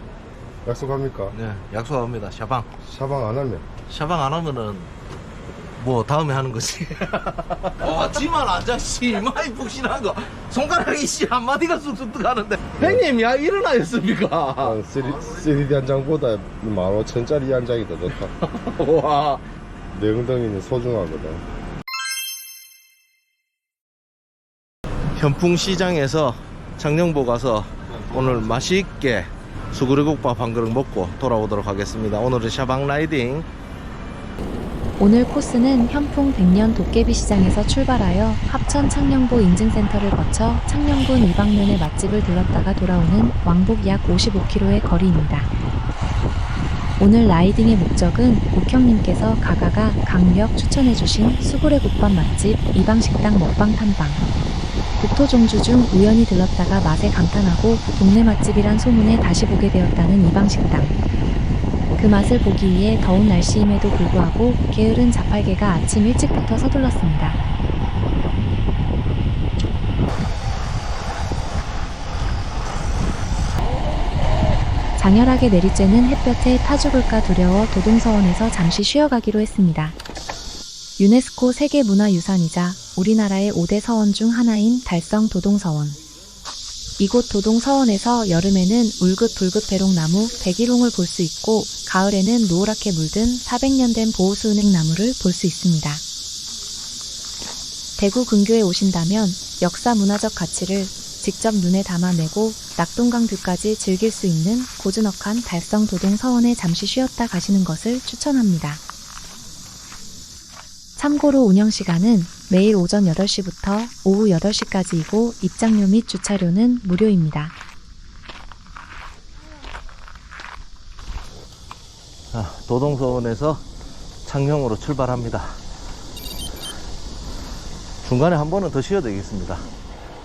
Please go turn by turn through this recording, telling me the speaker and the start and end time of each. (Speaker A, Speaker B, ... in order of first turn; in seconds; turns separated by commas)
Speaker A: 0.7-1.4, Speaker B: 1.3-2.7, Speaker A: 2.8-3.7, Speaker B: 3.9-4.9, Speaker B: 5.8-14.8, Speaker A: 12.8-13.1, Speaker A: 14.6-18.3, Speaker B: 18.1-19.4, Speaker A: 19.9-21.4, Speaker B: 25.2-33.5, Speaker C: 35.0-45.5, Speaker C: 47.0-54.2, Speaker C: 55.0-61.0, Speaker C: 62.0-67.4, Speaker C: 75.0-80.0, Speaker C: 81.0-86.0, Speaker C: 87.0-96.0, Speaker C: 98.0-108.8, Speaker C: 111.0-117.5, Speaker B: 122.3-123.6, Speaker B: 124.3-125.6, Speaker B: 128.0-129.7